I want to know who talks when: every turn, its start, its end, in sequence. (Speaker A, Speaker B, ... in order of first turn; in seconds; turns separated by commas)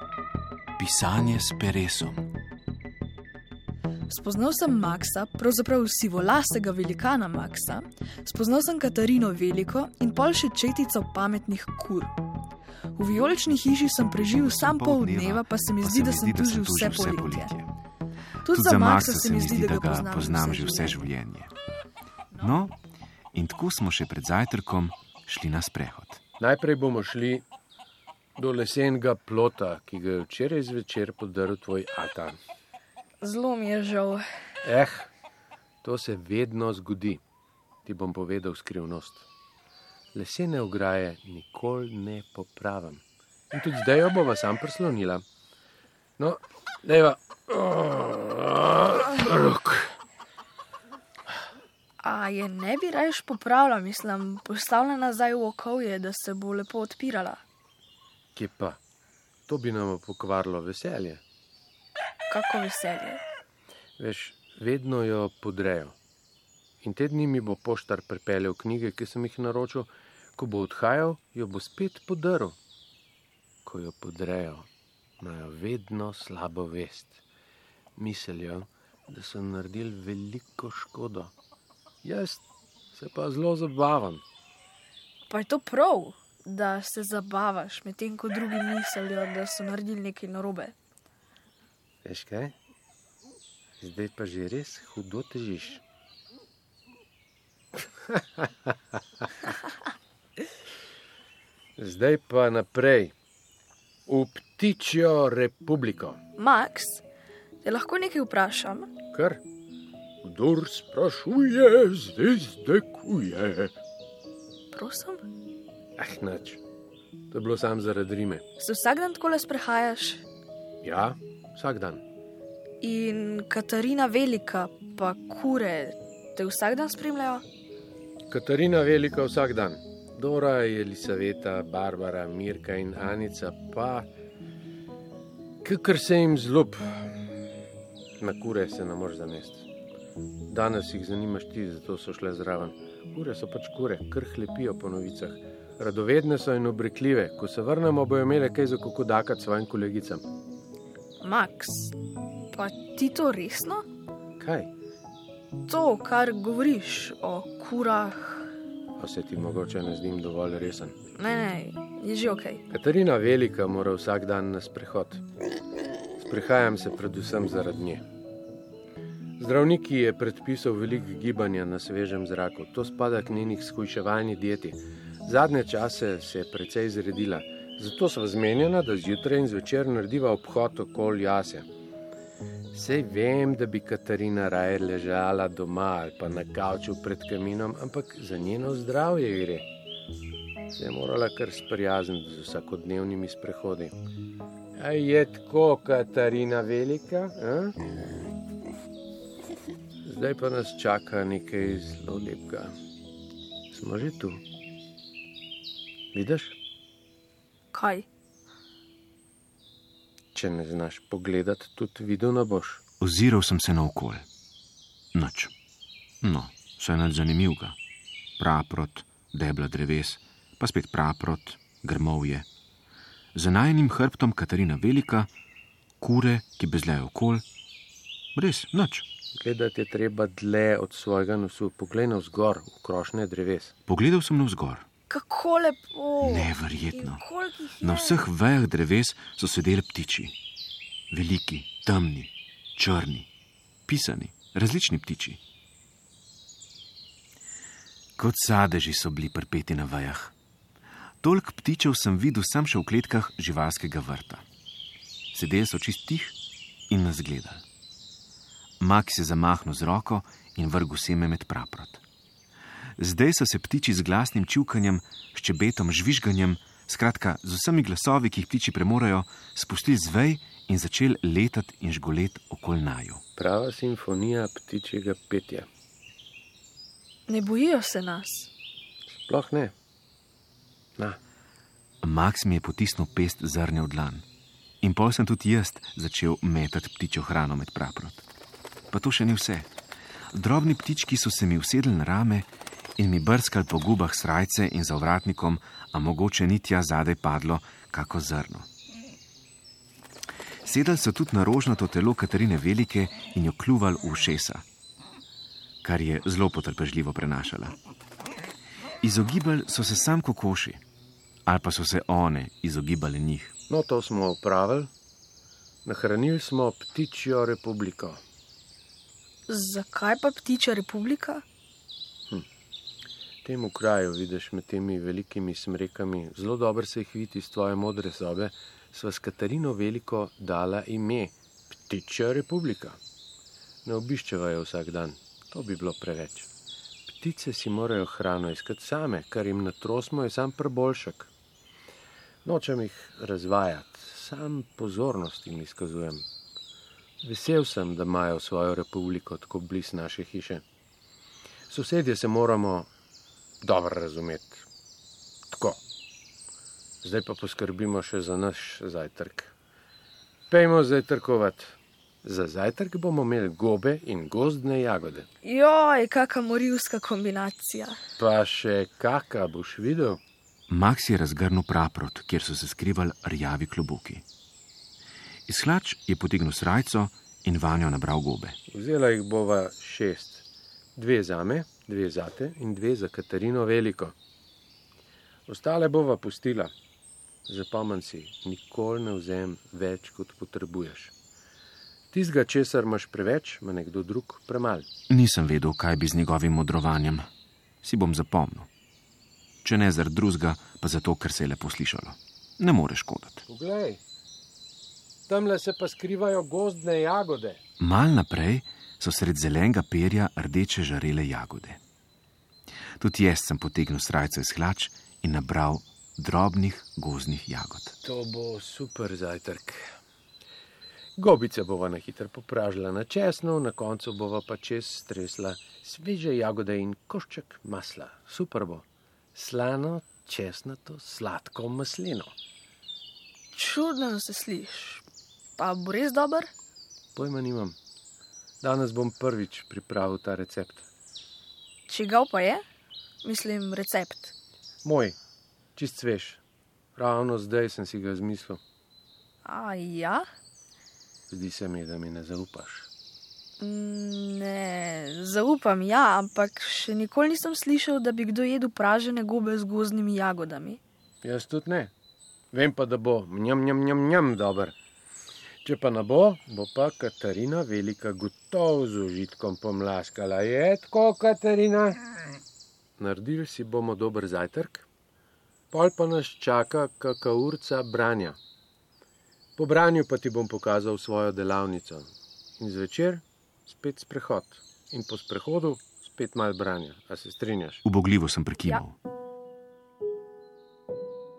Speaker A: 0.8-2.3, Speaker B: 4.1-12.2, Speaker B: 13.0-17.5, Speaker A: 13.7-17.7, Speaker B: 18.4-21.0, Speaker A: 18.5-21.5, Speaker A: 22.4-22.8, Speaker A: 23.3-26.2, Speaker C: 26.4-27.4, Speaker C: 28.4-32.4, Speaker B: 33.2-34.2, Speaker C: 34.6-35.1, Speaker C: 35.8-37.2, Speaker C: 37.9-39.3, Speaker C: 40.1-45.2, Speaker C: 46.2-50.0, Speaker B: 52.0-57.4, Speaker C: 58.4-58.8, Speaker C: 59.5-61.2, Speaker B: 62.3-63.2, Speaker C: 64.0-66.0, Speaker C: 66.8-72.6, Speaker C: 73.7-74.7, Speaker C: 75.2-77.2, Speaker C: 78.0-81.3, Speaker C: 82.0-84.2, Speaker B: 85.3-90.8, Speaker C: 92.0-92.5, Speaker C: 93.8-95.8, Speaker C: 98.1-98.5, Speaker C: 101.8-103.2, Speaker C: 104.1-106.2, Speaker B: 106.4-107.0, Speaker B: 107.6-108.9, Speaker C: 109.1-109.4, Speaker C: 110.2-113.8, Speaker B: 114.7-115.3, Speaker C: 116.0-116.6, Speaker C: 117.3-118.4, Speaker B: 118.6-120.2, Speaker C: 120.8-122.0, Speaker B: 122.8-127.5, Speaker C: 128.3-134.1, Speaker C: 135.6-137.4, Speaker C: 138.2-139.7, Speaker C: 140.5-150.2, Speaker B: 151.2-151.9, Speaker B: 152.5-153.9, Speaker C: 154.4-154.7, Speaker B: 155.7-158.5, Speaker C: 159.0-161.0, Speaker B: 161.2-162.6, Speaker C: 162.7-165.2, Speaker C: 166.2-168.1, Speaker C: 169.4-181.7, Speaker C: 182.7-189.7, Speaker C: 190.7-193.9, Speaker C: 194.8-197.8, Speaker C: 200.1-202.7, Speaker C: 203.7-204.4, Speaker C: 206.1-206.6, Speaker B: 207.7-208.1, Speaker C: 210.3-212.8, Speaker A: 213.0-214.2, Speaker A: 215.1-215.5, Speaker A: 216.2-217.8, Speaker A: 218.4-222.5, Speaker A: 223.3-225.3, Speaker A: 226.0-227.4, Speaker A: 228.4-229.1, Speaker C: 229.3-233.7, Speaker A: 233.9-234.8, Speaker B: 235.1-238.3, Speaker A: 236.2-237.2, Speaker A: 237.8-240.3, Speaker A: 241.1-243.3, Speaker A: 243.9-245.4, Speaker A: 248.2-250.3, Speaker A: 251.2-254.4, Speaker A: 255.3-256.4, Speaker A: 256.9-257.6, Speaker A: 258.8-262.0, Speaker A: 263.0-273.2, Speaker C: 273.4-275.7, Speaker B: 277.3-278.5, Speaker C: 279.1-279.7, Speaker A: 282.0-284.2, Speaker A: 284.8-288.2, Speaker A: 288.9-289.7, Speaker A: 290.3-292.5, Speaker A: 293.0-298.7, Speaker A: 300.6-304.6, Speaker A: 305.8-307.8, Speaker A: 309.0-310.8, Speaker A: 311.5-313.6, Speaker C: 313.7-314.9, Speaker C: 315.9-318.2, Speaker B: 319.5-321.4, Speaker C: 323.4-333.0, Speaker C: 333.9-336.5, Speaker C: 337.1-341.3, Speaker C: 342.4-346.3, Speaker C: 347.2-350.6, Speaker C: 351.7-352.9, Speaker C: 353.6-354.7, Speaker C: 355.5-355.8, Speaker C: 357.0-359.5, Speaker C: 360.5-365.3, Speaker B: 365.4-368.0, Speaker C: 368.2-370.2, Speaker A: 370.7-374.2, Speaker A: 375.5-378.6, Speaker C: 378.7-380.4, Speaker C: 381.0-384.1, Speaker C: 385.5-386.7, Speaker C: 387.5-391.1, Speaker C: 392.1-394.9, Speaker A: 395.1-397.3, Speaker A: 397.8-398.7, Speaker A: 399.6-403.4, Speaker C: 403.5-404.0, Speaker C: 405.3-407.6, Speaker A: 407.8-411.8, Speaker A: 413.0-418.0, Speaker C: 418.0-420.0, Speaker C: 421.2-432.3, Speaker B: 433.5-435.1, Speaker B: 435.6-436.5, Speaker C: 437.2-437.8, Speaker C: 438.6-440.9, Speaker B: 441.9-442.6, Speaker B: 443.2-444.4, Speaker C: 444.8-445.2, Speaker C: 445.8-446.4, Speaker C: 447.0-448.6, Speaker B: 449.4-450.3, Speaker C: 451.3-452.9, Speaker B: 453.6-460.8, Speaker C: 461.2-461.9, Speaker C: 462.5-464.8, Speaker C: 465.6-472.0, Speaker C: 473.0-474.9, Speaker C: 475.7-478.4, Speaker C: 479.6-487.8, Speaker A: 487.9-489.0